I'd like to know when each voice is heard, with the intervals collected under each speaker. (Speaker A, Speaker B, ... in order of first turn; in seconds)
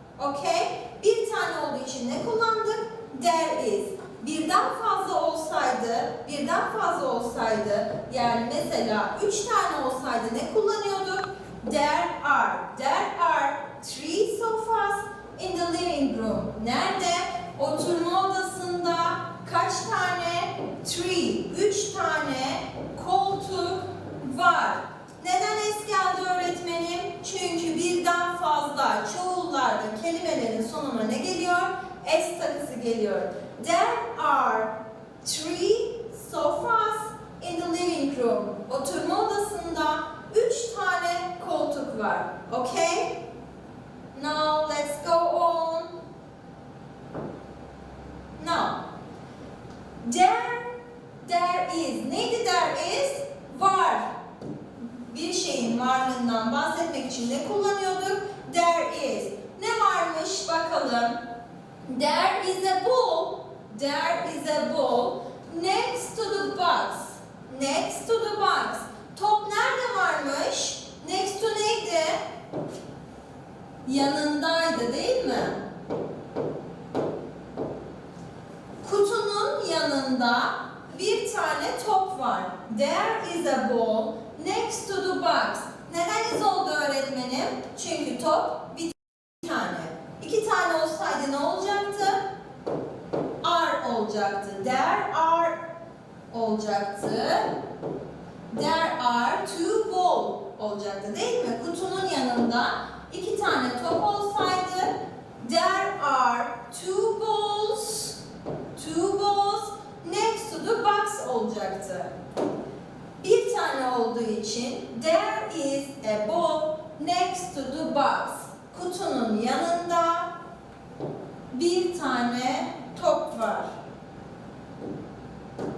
Speaker A: 0.2-43.2, 44.1-46.0, 48.4-48.8, 50.0-54.1, 54.8-61.2, 61.9-72.2, 73.8-75.6, 78.8-92.2, 93.4-95.6, 96.3-97.5, 98.5-108.2, 108.7-112.1, 113.2-120.3, 121.5-123.7